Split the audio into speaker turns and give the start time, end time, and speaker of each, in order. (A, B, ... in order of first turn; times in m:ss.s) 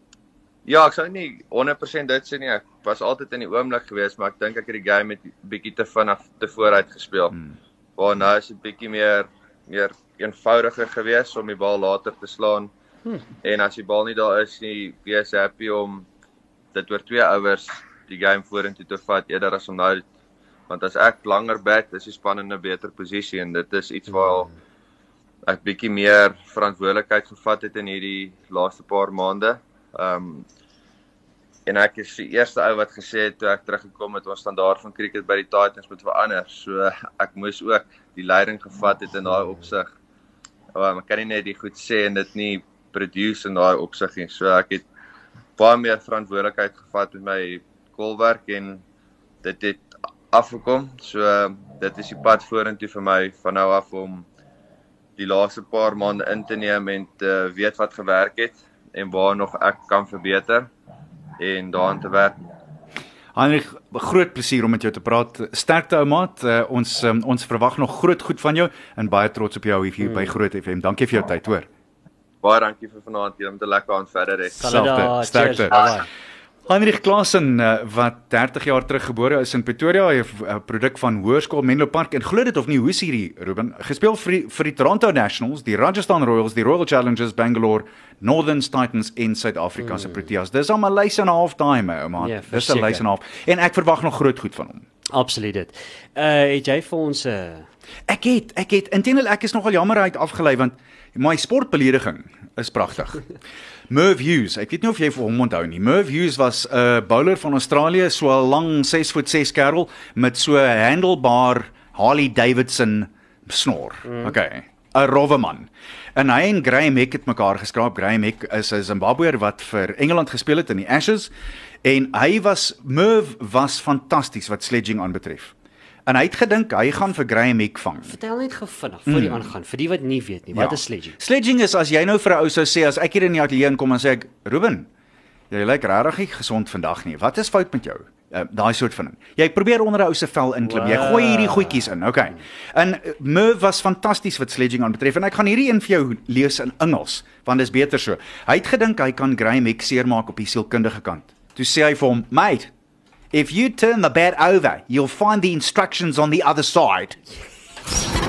0:00.6-0:07.4 A
0:08.0-0:12.7 A
0:13.4-0:16.0 A
0:16.7-0:20.0 A
0:20.7-0:24.5 A
0:24.2-0:24.5 B
0:25.4-0:30.4 A
0:31.6-0:39.9 A
0:40.7-0:44.8 A
0:45.6-0:48.8 A
0:49.4-0:54.2 A
0:55.2-1:00.7 A
1:01.4-1:02.4 A
1:03.3-1:11.7 C
1:12.4-1:14.6 A
1:14.6-1:16.1 B
1:14.6-1:15.9 C
1:16.6-1:34.9 C
1:29.8-1:30.2 B
1:32.2-1:33.0 B
1:35.1-1:37.7 B
1:38.1-1:43.3 C
1:43.9-2:01.3 C
1:54.0-1:54.3 B
2:01.8-2:05.5 C
2:06.1-2:08.1 C
2:08.0-2:11.2 B
2:09.1-2:09.5 C
2:10.5-2:14.9 C
2:15.5-2:32.7 C
2:20.6-2:21.9 B
2:33.3-2:37.2 C